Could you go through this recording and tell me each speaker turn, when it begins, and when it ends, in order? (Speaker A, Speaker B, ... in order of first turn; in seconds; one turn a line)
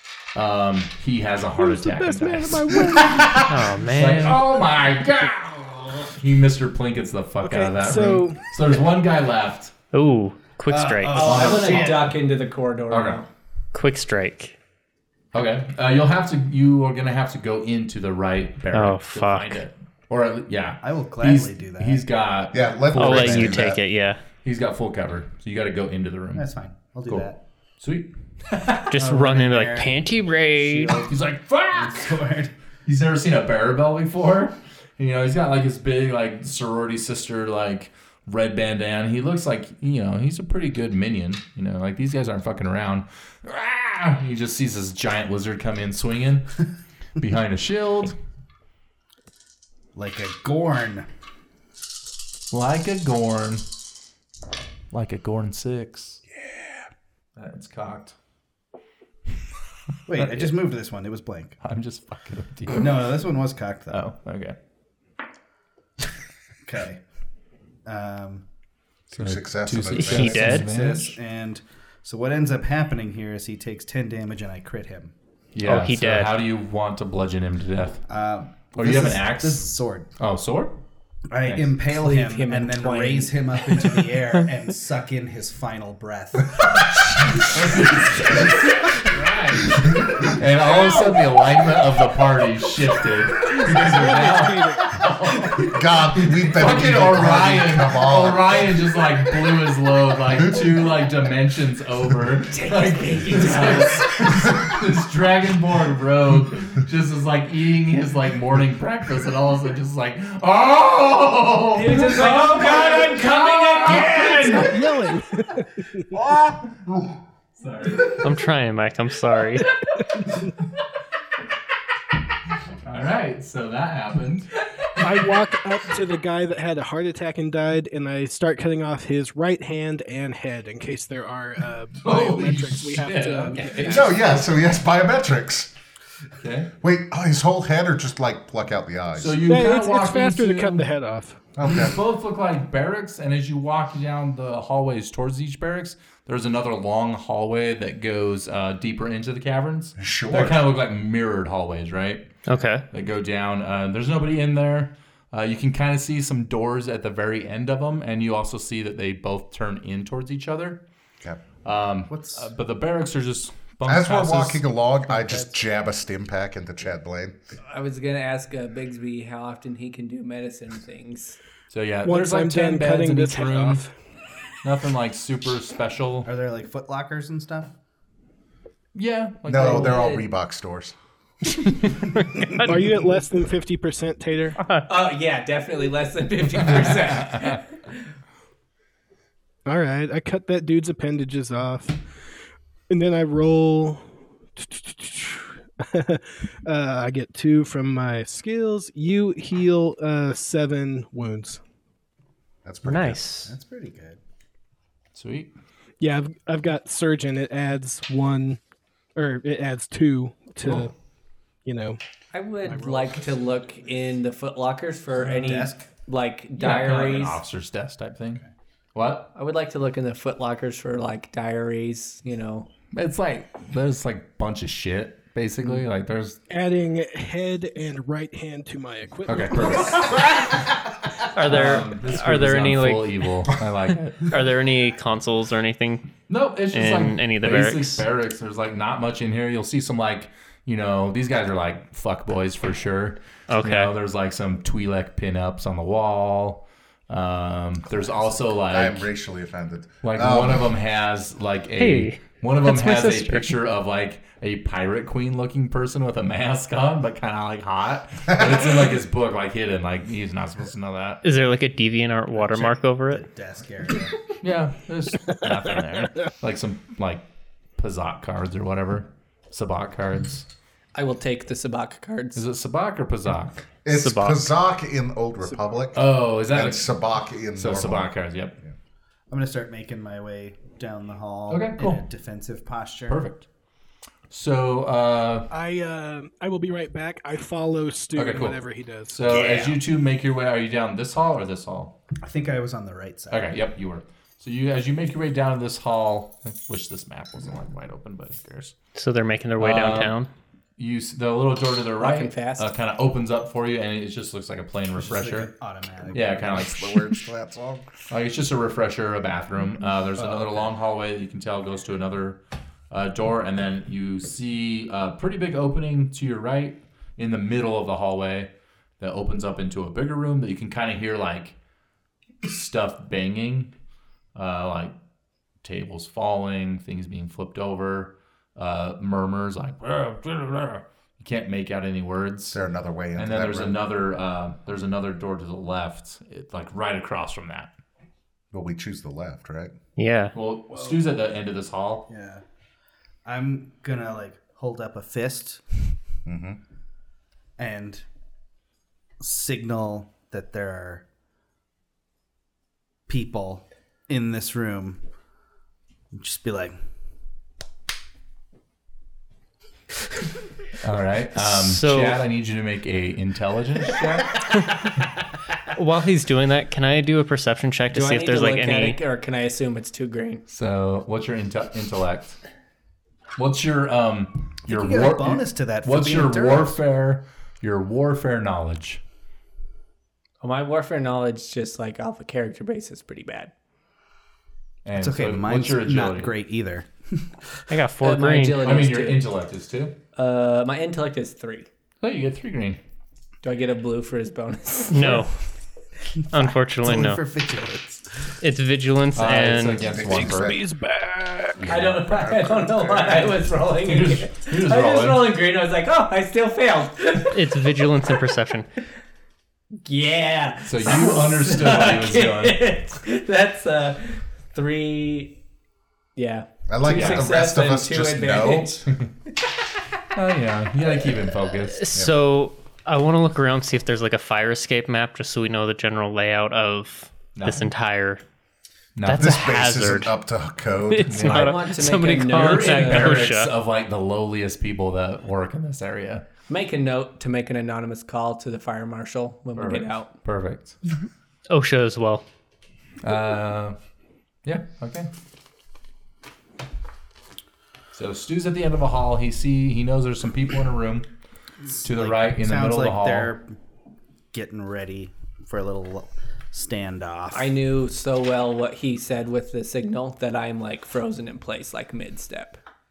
Speaker A: 0.3-9.7
Speaker B: 1.6-3.5
Speaker C: 3.5-4.4
Speaker B: 7.4-8.4
Speaker C: 9.9-11.6
Speaker D: 10.7-12.1
Speaker E: 11.1-13.3
Speaker A: 11.2-12.1
Speaker A: 12.9-13.2
Speaker C: 13.7-14.6
Speaker A: 15.3-23.5
Speaker C: 18.7-19.6
Speaker D: 20.8-22.0
Speaker F: 22.5-23.8
Speaker C: 22.9-24.2
Speaker D: 22.9-23.6
Speaker A: 24.4-26.5
Speaker D: 26.3-27.4
Speaker A: 27.8-28.8
Speaker C: 28.9-31.0
Speaker D: 28.9-31.1
Speaker A: 31.0-32.2
Speaker D: 31.7-32.5
Speaker A: 32.9-46.6
Speaker A: 47.2-48.1
Speaker D: 49.9-51.1
Speaker A: 52.5-53.6
Speaker A: 54.9-56.2
Speaker A: 57.4-58.1
Speaker D: 60.1-61.6
Speaker A: 60.2-60.5
Speaker A: 61.6-63.1
Speaker D: 62.7-64.0
Speaker A: 63.9-64.5
Speaker D: 66.6-67.0
Speaker D: 67.8-68.4
Speaker F: 69.1-70.5
Speaker A: 69.1-71.2
Speaker C: 70.0-70.6
Speaker D: 70.2-75.1
Speaker A: 75.5-78.0
Speaker C: 75.6-76.3
Speaker D: 78.1-80.1
Speaker A: 78.7-80.7
Speaker D: 81.3-88.5
Speaker A: 81.4-81.7
Speaker E: 81.9-83.7
Speaker A: 87.2-114.8
Speaker F: 89.7-90.3
Speaker B: 90.7-91.1
Speaker B: 93.4-95.0
Speaker F: 95.6-98.8
Speaker E: 102.5-104.2
Speaker E: 111.7-114.7
Speaker B: 112.2-113.1
Speaker B: 113.8-116.2
Speaker A: 117.6-118.2
Speaker C: 118.2-119.8
Speaker A: 122.8-125.0
Speaker B: 125.0-134.1
Speaker A: 132.0-134.4
Speaker F: 133.8-135.7
Speaker A: 136.4-136.7
Speaker F: 136.8-139.4
Speaker A: 139.2-140.8
Speaker B: 139.4-141.4
Speaker F: 141.6-141.9
Speaker A: 141.6-160.8
Speaker F: 150.0-150.6
Speaker C: 152.5-152.8
Speaker A: 161.6-164.6
Speaker D: 162.1-162.5
Speaker F: 163.8-167.3
Speaker E: 167.6-171.4
Speaker A: 171.7-173.8
Speaker B: 172.0-173.9
Speaker A: 174.6-176.3
Speaker D: 176.2-177.7
Speaker A: 178.9-180.1
Speaker F: 179.4-180.9
Speaker E: 179.6-180.2
Speaker C: 182.3-182.7
Speaker B: 182.6-184.6
Speaker C: 184.6-184.8
Speaker E: 184.8-187.7
Speaker A: 186.7-187.6
Speaker B: 189.6-192.0
Speaker B: 192.9-201.6
Speaker F: 202.6-203.2
Speaker C: 202.8-203.5
Speaker D: 203.4-204.2
Speaker A: 205.1-205.5
Speaker B: 206.0-208.6
Speaker B: 209.1-210.9
Speaker B: 211.6-212.0
Speaker E: 212.3-217.4
Speaker B: 212.6-213.4
Speaker D: 215.2-215.9
Speaker A: 216.6-218.4
Speaker A: 218.9-219.3
Speaker E: 219.3-222.7
Speaker A: 222.9-226.4
Speaker B: 226.5-230.2
Speaker A: 229.2-230.6
Speaker C: 231.3-233.2
Speaker A: 231.4-234.4
Speaker C: 234.2-236.1
Speaker A: 236.3-249.1
Speaker C: 236.7-238.1
Speaker C: 243.5-243.9
Speaker F: 248.7-250.7
Speaker A: 250.0-261.2
Speaker C: 251.8-253.5
Speaker C: 261.2-263.2
Speaker D: 262.4-264.1
Speaker A: 264.4-267.2
Speaker A: 267.8-270.4
Speaker E: 270.9-272.4
Speaker A: 272.4-273.6
Speaker F: 273.8-278.7
Speaker C: 273.9-274.5
Speaker A: 275.9-277.0
Speaker A: 277.5-278.5
Speaker D: 279.3-283.2
Speaker A: 281.5-282.0
Speaker A: 283.1-283.4
Speaker A: 284.3-285.5
Speaker B: 285.5-289.2
Speaker A: 288.1-291.9
Speaker D: 289.2-289.8
Speaker D: 292.2-293.6
Speaker A: 293.3-298.7
Speaker C: 298.9-300.3
Speaker A: 299.6-300.1
Speaker A: 300.8-305.5
Speaker E: 302.0-302.7
Speaker D: 305.0-306.7
Speaker A: 306.1-307.2
Speaker F: 306.3-307.9
Speaker A: 308.1-312.4
Speaker D: 310.2-310.6
Speaker A: 312.9-321.5
Speaker A: 322.4-323.7
Speaker A: 324.3-324.9
Speaker A: 325.6-332.6
Speaker F: 332.5-333.8
Speaker A: 333.1-337.7
Speaker F: 338.5-339.7
Speaker C: 340.0-340.3
Speaker A: 340.3-342.1
Speaker D: 340.7-341.0
Speaker D: 342.1-342.4
Speaker D: 343.2-345.8
Speaker F: 346.2-346.6
Speaker D: 347.6-348.0
Speaker D: 349.2-351.0
Speaker D: 353.1-355.0
Speaker D: 356.1-356.8
Speaker A: 360.8-364.3
Speaker C: 361.4-362.2
Speaker C: 364.5-364.8
Speaker C: 365.7-369.0
Speaker E: 367.9-370.4
Speaker A: 370.5-372.4
Speaker A: 373.4-379.0
Speaker D: 374.7-376.8
Speaker E: 380.4-383.5
Speaker A: 384.8-386.3
Speaker D: 384.9-387.7
Speaker C: 387.7-388.7
Speaker E: 388.0-389.3
Speaker A: 388.6-389.9
Speaker E: 390.1-391.7
Speaker A: 392.0-392.8
Speaker E: 393.4-395.2
Speaker C: 394.9-395.3
Speaker C: 396.3-397.2
Speaker D: 396.3-398.3
Speaker C: 398.4-400.0
Speaker A: 399.1-400.6
Speaker F: 399.8-400.6
Speaker B: 400.0-401.7
Speaker F: 401.6-403.3
Speaker E: 401.6-407.4
Speaker A: 403.8-405.3
Speaker C: 407.3-408.7
Speaker E: 409.8-415.3
Speaker A: 410.6-412.7
Speaker E: 416.1-418.8
Speaker F: 416.7-418.8
Speaker A: 416.9-417.3
Speaker A: 420.1-421.9
Speaker C: 421.7-428.2
Speaker A: 427.3-427.7
Speaker A: 428.9-429.3
Speaker C: 429.0-430.1
Speaker F: 429.1-431.5
Speaker C: 430.9-433.5
Speaker A: 431.1-431.6
Speaker E: 431.2-433.2
Speaker A: 432.2-436.2
Speaker E: 436.5-440.1
Speaker A: 439.6-440.8
Speaker C: 441.5-442.2
Speaker A: 443.0-443.8
Speaker A: 444.4-445.1
Speaker A: 447.9-451.1
Speaker D: 451.8-453.6
Speaker A: 451.8-453.3
Speaker D: 454.3-457.5
Speaker E: 457.3-462.6